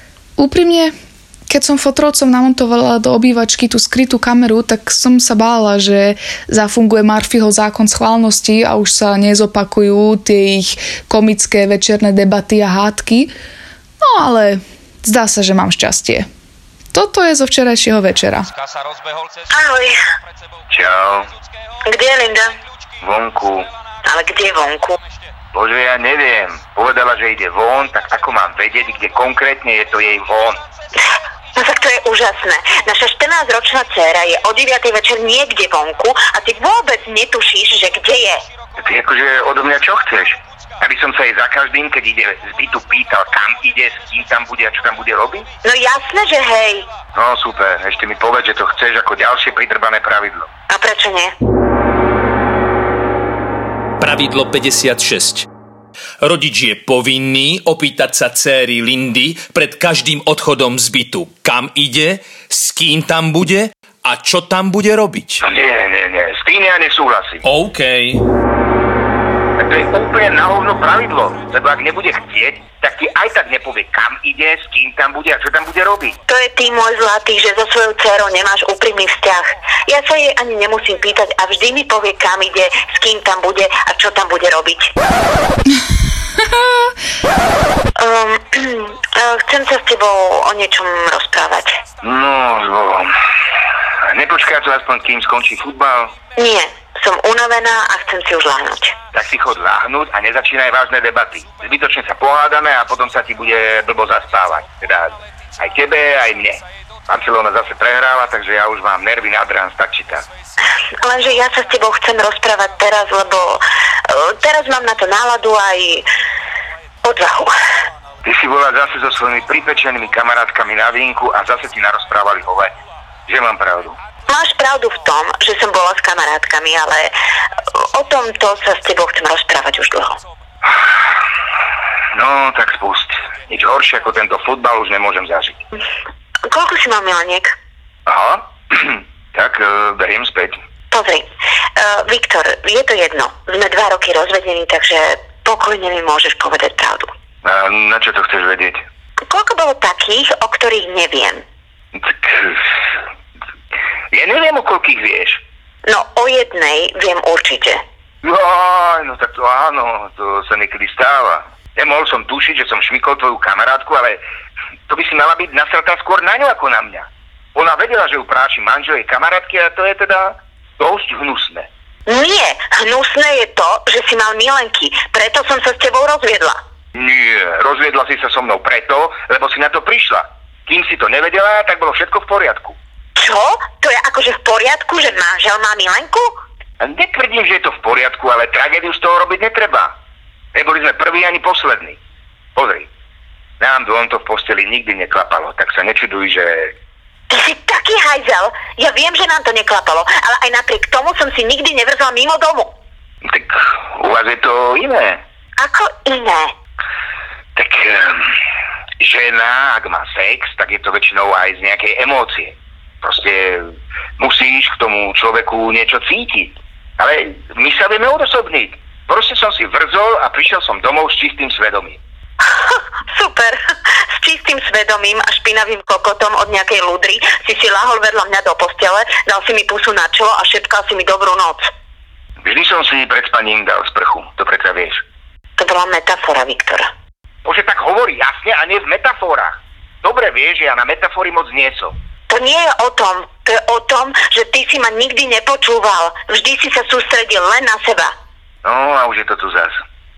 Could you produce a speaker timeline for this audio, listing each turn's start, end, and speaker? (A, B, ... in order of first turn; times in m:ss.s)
0:00.4-0:00.9 A
0:01.5-0:13.3 A
0:14.0-0:16.3 A
0:16.9-0:18.5 A
0:18.9-0:19.4 B
0:19.5-0:20.0 C
0:20.6-0:21.7 B
0:20.7-0:21.3 D
0:21.8-0:22.5 C
0:22.9-0:24.3 B
0:23.0-0:23.7 D
0:24.0-0:25.0 C
0:25.5-0:30.6 D
0:25.7-0:30.9 B
0:31.5-0:32.2 B
0:31.6-0:38.4 C
0:37.7-0:49.4 B
0:38.8-0:45.4 D
0:45.6-0:46.9 C
0:47.1-0:50.5 D
0:50.7-0:51.3 C
0:54.0-0:55.5 E
0:56.2-1:05.4 E
1:05.4-1:07.4 D
1:07.4-1:08.2 E
1:09.6-1:16.2 B
1:09.6-1:16.1 D
1:16.3-1:24.9 C
1:26.5-1:26.9 A
1:28.0-1:31.8 C
1:31.5-1:32.9 B
1:32.0-1:33.1 D
1:34.1-1:36.1 D
1:34.3-1:36.5 B
1:36.4-1:38.9 C
1:38.9-1:50.5 B
1:39.1-1:50.2 D
1:51.0-1:56.0 C
1:51.2-1:51.7 B
1:57.0-1:57.5 C
1:58.0-2:04.1 B
1:58.2-2:02.7 D
2:03.3-2:03.9 D
2:04.3-2:07.1 C
2:07.9-2:10.1 C
2:10.2-2:10.8 B
2:12.2-2:15.5 D
2:12.5-2:15.3 B
2:16.5-2:17.6 C
2:18.1-2:20.6 D
2:20.9-2:21.2 C
2:21.8-2:27.1 C
2:27.4-2:28.8 D
2:29.3-2:31.4 C
2:32.0-2:32.6 D
2:34.1-2:35.4 D
2:35.8-2:37.8 C
2:38.2-2:44.2 D
2:44.9-2:51.7 D
2:52.1-2:56.6 C
2:56.9-3:02.8 D
3:03.2-3:06.3 C
3:06.8-3:09.9 D
3:10.5-3:12.0 D
3:12.6-3:12.9 D
3:13.6-3:16.7 D
3:17.3-3:22.7 C
3:23.2-3:25.2 D
3:25.6-3:26.5 C
3:27.6-3:28.2 D
3:29.0-3:33.7 D
3:34.2-3:42.0 D
3:43.1-3:43.6 C
3:44.2-3:51.7 C
3:52.4-3:55.0 D
3:55.6-3:56.9 C
3:57.4-4:01.9 D
4:02.3-4:08.1 C
4:08.6-4:09.7 D